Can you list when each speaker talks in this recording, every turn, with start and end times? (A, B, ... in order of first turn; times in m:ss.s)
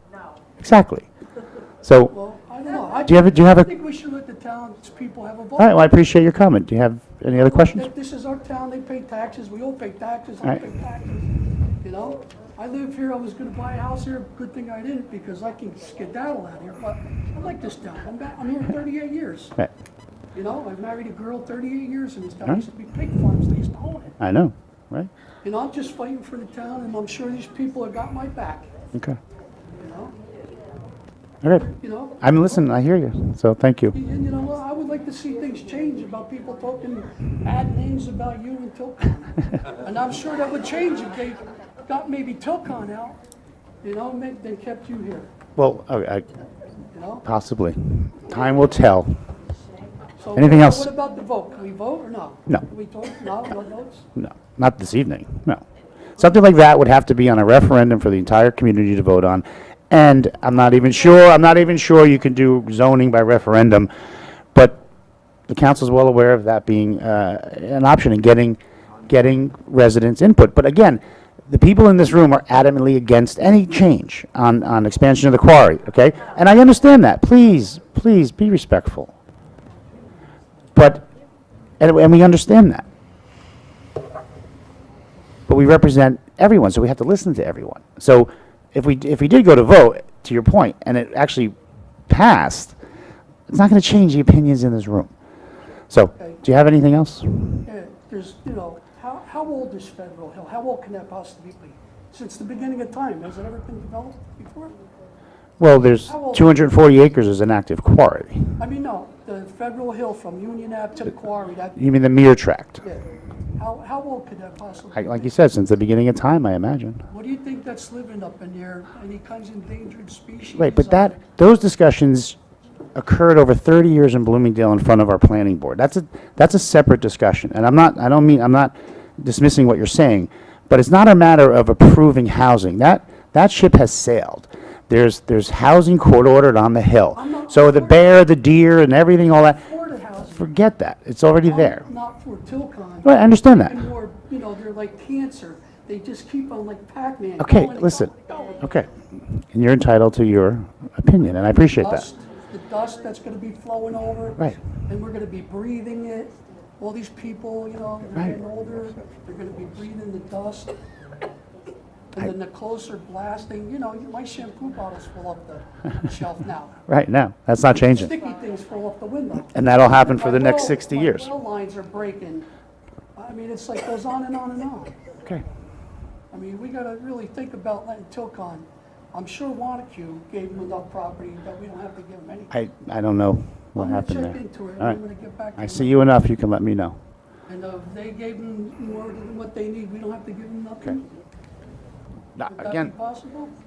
0:00.6-0:01.1 A
0:01.8-0:02.1 A
0:02.1-0:05.9 B
0:03.0-0:03.7 A
0:05.6-0:07.9 A
0:07.3-0:11.3 B
0:11.8-0:19.6 B
0:20.3-0:24.2 B
0:24.2-0:25.1 A
0:25.4-0:28.7 B
0:29.8-0:30.1 B
0:31.4-0:34.0 A
0:31.7-0:32.2 B
0:33.9-0:43.2 B
0:43.8-0:45.3 B
0:45.6-0:46.3 A
0:46.9-0:47.2 B
0:47.2-0:49.2 A
0:50.2-0:54.1 B
0:50.4-0:50.9 A
0:54.2-0:55.6 A
0:56.2-1:03.9 A
1:04.5-1:04.8 A
1:05.5-1:19.1 A
1:20.8-1:21.1 A
1:21.8-1:22.8 A
1:25.5-1:31.6 A
1:32.1-1:32.8 A
1:33.5-1:35.1 A
1:35.9-1:37.6 A
1:37.6-1:44.7 B
1:45.6-1:48.6 A
1:46.1-1:46.6 B
1:48.6-1:51.8 B
1:51.8-1:52.8 A
1:53.6-1:55.3 B
1:55.0-1:57.0 A
1:57.1-2:01.2 B
2:00.6-2:02.4 A
2:03.0-2:19.6 A
2:17.2-2:18.2 B
2:19.5-2:20.4 B
2:20.4-2:21.8 A
2:21.5-2:28.7 B
2:23.0-2:23.8 A
2:27.4-2:32.1 A
2:31.8-2:40.8 B
2:42.1-2:46.8 B
2:46.9-2:48.2 A
2:47.9-2:52.5 B
2:49.5-2:51.3 A
2:53.2-2:55.0 B
2:56.3-3:02.5 B
3:02.5-3:05.0 A
3:03.8-3:06.1 B
3:05.6-3:07.0 A
3:07.5-3:11.1 B
3:12.4-3:12.9 A
3:12.5-3:13.5 B